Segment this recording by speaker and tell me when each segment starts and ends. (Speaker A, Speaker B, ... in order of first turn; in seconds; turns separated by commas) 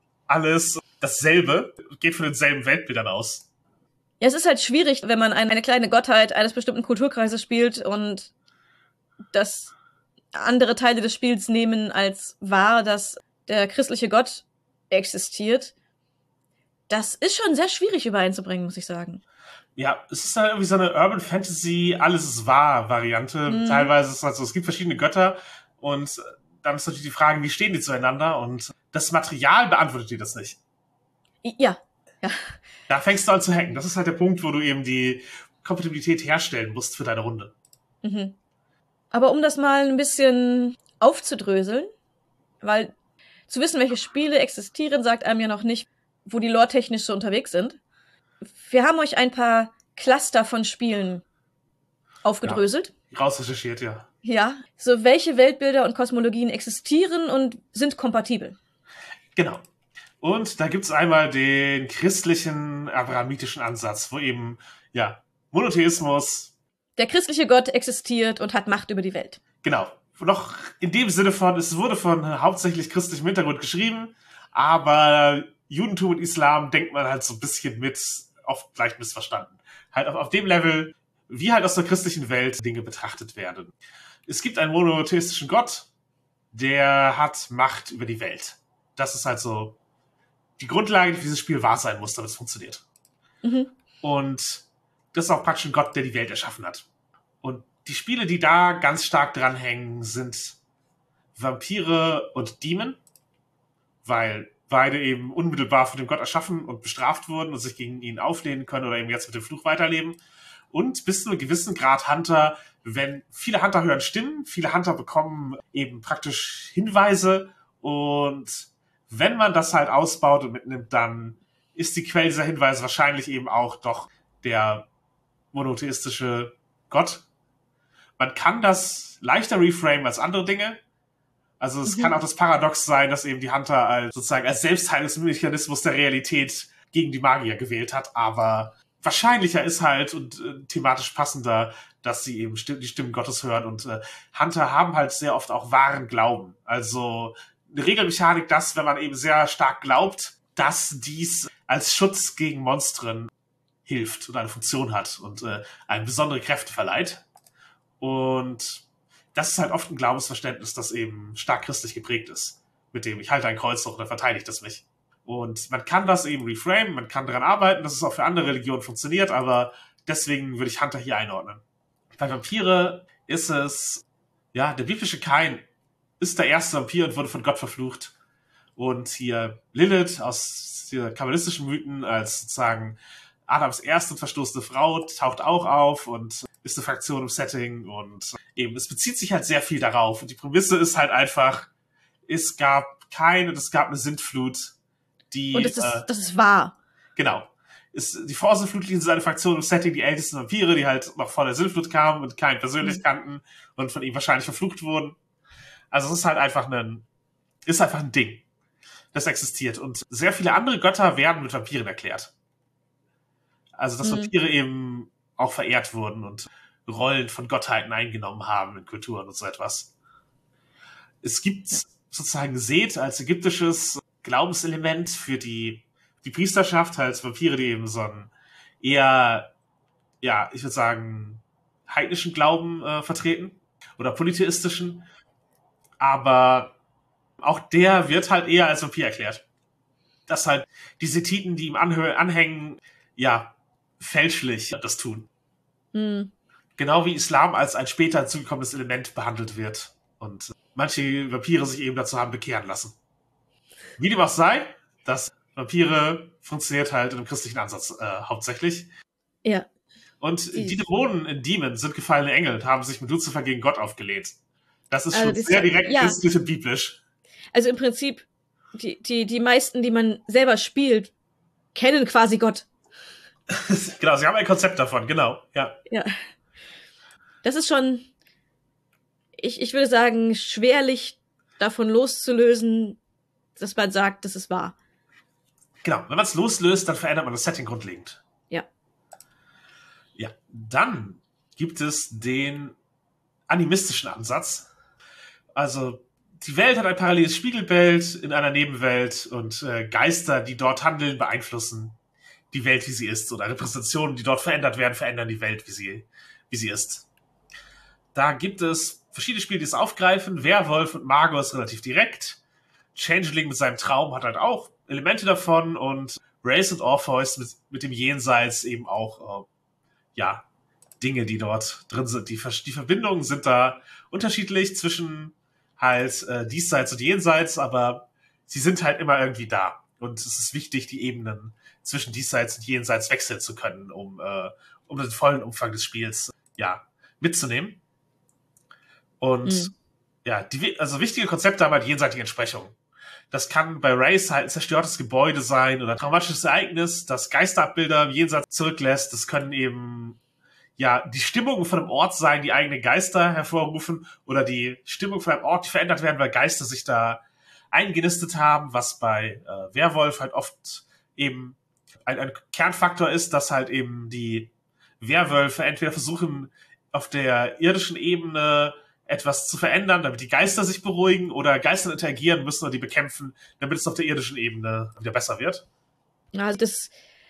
Speaker A: 0.3-3.5, Speaker B: 4.2-8.3, Speaker B: 9.3-9.7, Speaker B: 10.3-15.7, Speaker B: 16.9-19.2, Speaker A: 19.8-30.6, Speaker B: 23.5-23.9, Speaker B: 31.4-32.6, Speaker A: 32.9-37.5, Speaker B: 38.0-38.3, Speaker B: 39.1-41.9, Speaker B: 42.6-42.9, Speaker B: 43.5-47.8, Speaker B: 48.5-51.2, Speaker B: 52.2-52.9, Speaker A: 52.4-54.0, Speaker B: 54.2-58.6, Speaker A: 59.3-59.6, Speaker A: 60.2-66.5, Speaker B: 67.0-69.4, Speaker A: 69.6-83.7, Speaker A: 84.3-85.9, Speaker A: 86.5-89.8, Speaker A: 90.6-92.8, Speaker B: 93.4-93.7, Speaker A: 94.0-96.8, Speaker A: 97.4-100.6, Speaker A: 101.3-103.0, Speaker A: 104.0-110.2, Speaker A: 110.7-124.9, Speaker A: 125.5-127.2, Speaker A: 128.2-130.8, Speaker A: 131.6-153.3, Speaker B: 131.8-132.1, Speaker A: 153.8-157.2, Speaker A: 158.0-171.6, Speaker A: 172.1-175.6, Speaker A: 176.2-178.1, Speaker A: 178.8-191.7, Speaker A: 192.3-194.7, Speaker A: 195.3-196.1, Speaker B: 195.5-196.7, Speaker A: 197.2-205.2, Speaker A: 205.9-207.1, Speaker A: 207.7-208.4, Speaker A: 209.1-212.3, Speaker A: 213.8-219.9, Speaker B: 214.0-214.3, Speaker A: 221.2-228.3, Speaker A: 228.8-229.5, Speaker A: 230.2-235.1, Speaker A: 236.0-236.7, Speaker A: 237.4-239.4, Speaker A: 240.3-245.3, Speaker B: 245.9-246.3, Speaker A: 246.8-252.9, Speaker A: 254.0-258.9, Speaker A: 260.2-264.4, Speaker A: 264.9-267.0, Speaker B: 265.1-266.2, Speaker B: 267.5-271.1, Speaker B: 271.7-272.7, Speaker A: 273.5-275.8, Speaker B: 277.4-278.1, Speaker B: 279.4-283.0, Speaker B: 283.6-284.7, Speaker A: 285.8-288.2, Speaker A: 290.1-292.7, Speaker A: 293.5-294.7, Speaker A: 295.5-301.9, Speaker A: 302.5-307.1, Speaker A: 308.1-312.4, Speaker A: 312.9-319.5, Speaker A: 320.1-320.4, Speaker A: 321.0-337.8, Speaker A: 339.2-339.7, Speaker B: 339.4-339.7, Speaker A: 340.2-342.7, Speaker A: 343.3-350.2, Speaker A: 350.8-375.6, Speaker B: 376.3-376.9